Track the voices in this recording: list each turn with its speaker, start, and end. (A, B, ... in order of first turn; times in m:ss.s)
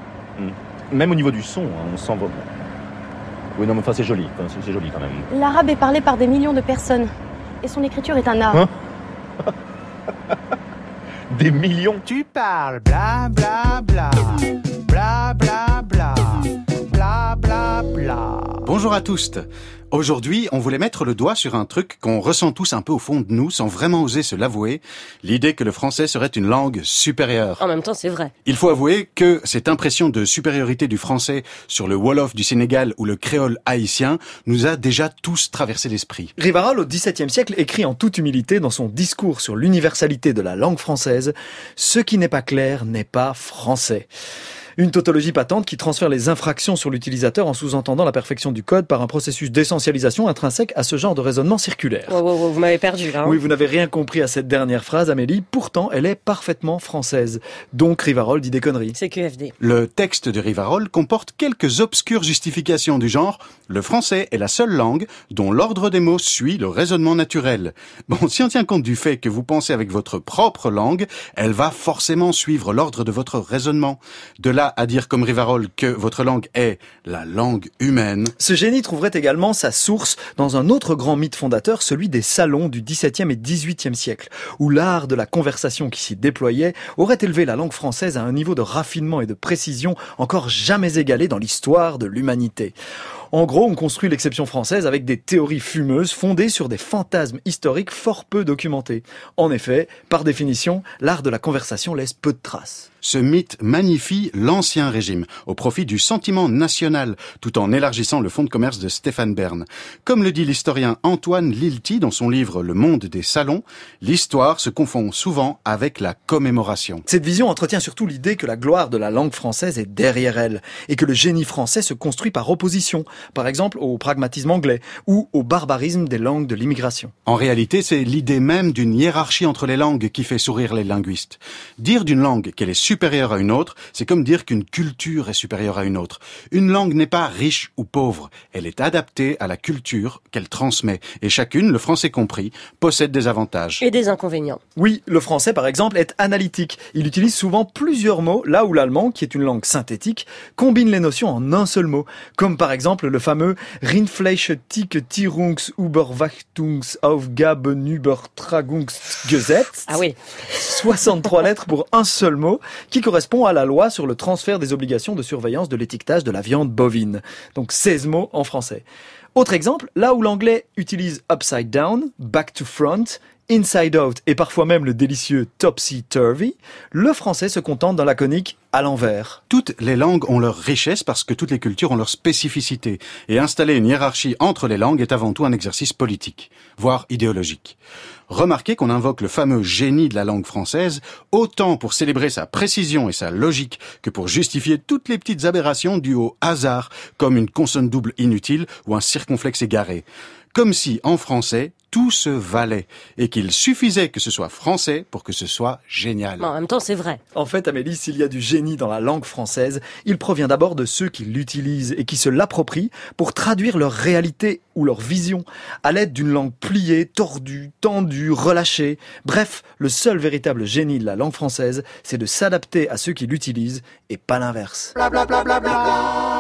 0:00.4-0:02.4 A
0:03.6-0:05.3 A
0:05.3-0:07.1 B
0:07.6-0:08.6 B
0:11.3-0:12.0 A
0:12.0-0:18.6 C
0:18.6-0:27.6 D
0:27.6-0:28.3 E
0:28.4-0:36.3 D
0:36.4-0:44.1 F
0:44.8-0:52.2 F
0:52.1-0:53.4 E
0:53.2-0:59.0 F
0:59.0-0:59.5 E
0:59.6-1:18.3 D
1:18.4-1:32.7 F
1:33.3-1:42.9 F
1:43.0-1:57.0 D
1:57.1-2:07.1 F
2:07.2-2:23.8 D
2:23.8-2:24.6 E
2:24.8-2:40.0 F
2:39.9-2:40.6 E
2:40.6-2:59.4 F
2:59.5-3:07.8 D
3:08.3-3:26.5 D
3:26.4-3:27.2 E
3:27.3-3:45.0 F